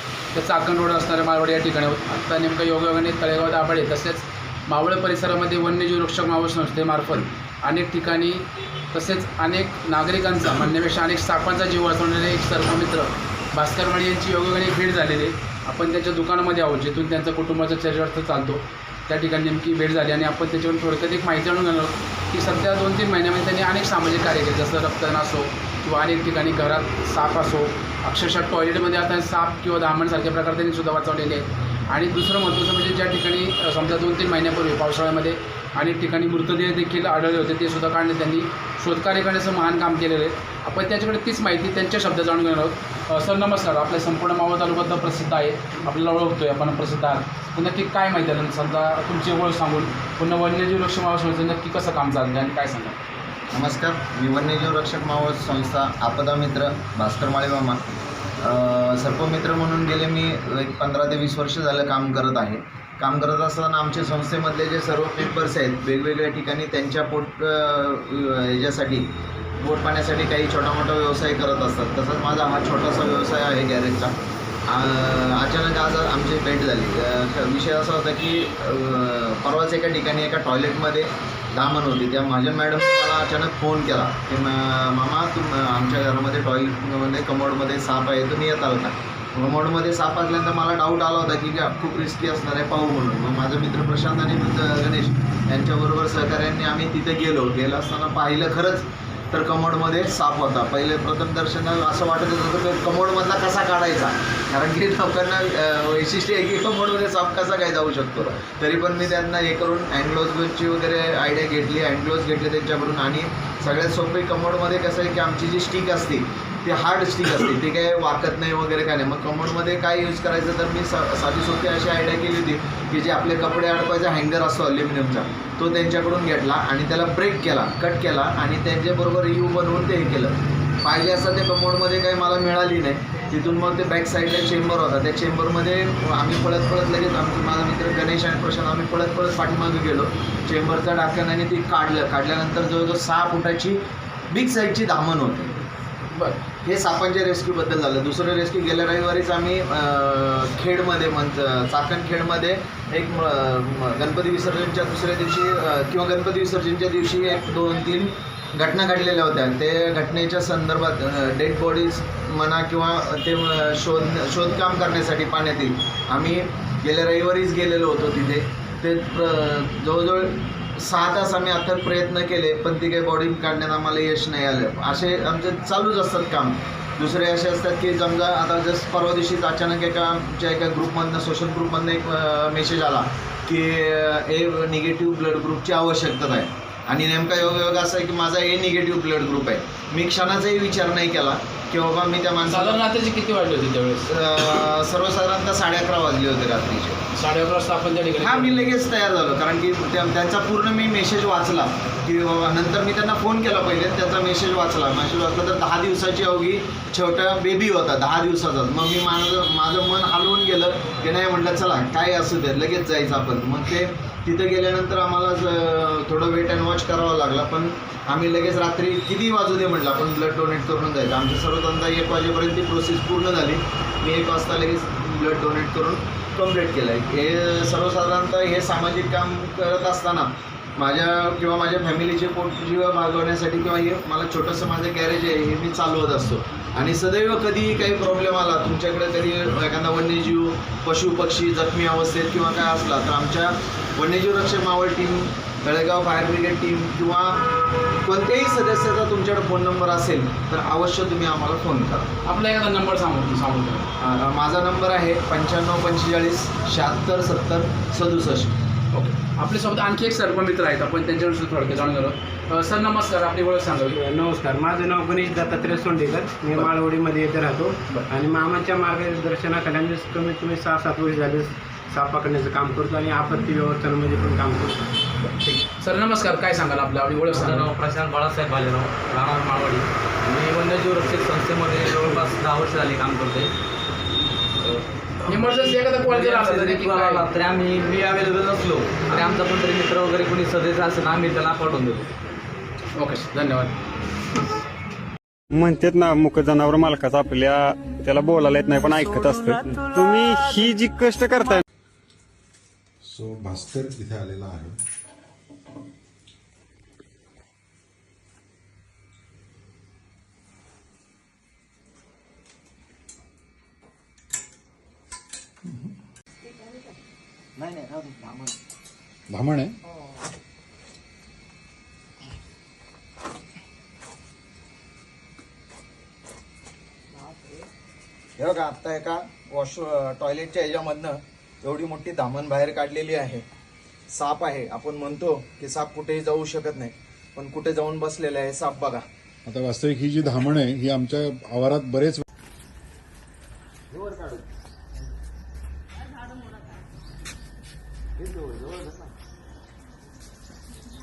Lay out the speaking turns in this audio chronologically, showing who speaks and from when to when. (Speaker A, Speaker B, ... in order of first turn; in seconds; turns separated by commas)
Speaker A: 0.3-53.0, Speaker B: 53.5-57.8, Speaker B: 58.4-74.1, Speaker B: 74.7-145.6, Speaker A: 146.1-146.4, Speaker B: 146.6-192.8, Speaker A: 192.5-194.1, Speaker B: 194.1-197.0, Speaker A: 197.1-198.7, Speaker B: 198.2-247.4, Speaker B: 248.0-252.1, Speaker A: 252.2-253.9, Speaker B: 254.0-258.5, Speaker A: 258.9-264.0, Speaker C: 263.9-274.9, Speaker A: 275.4-277.7, Speaker D: 277.3-283.5, Speaker D: 284.6-292.1, Speaker A: 285.2-287.2, Speaker A: 292.9-293.8, Speaker E: 295.5-301.6, Speaker F: 303.0-304.8, Speaker B: 317.6-318.5, Speaker F: 319.3-319.7, Speaker B: 328.4-333.4, Speaker B: 334.1-339.1, Speaker F: 339.4-342.2, Speaker B: 343.9-344.4, Speaker B: 348.2-349.1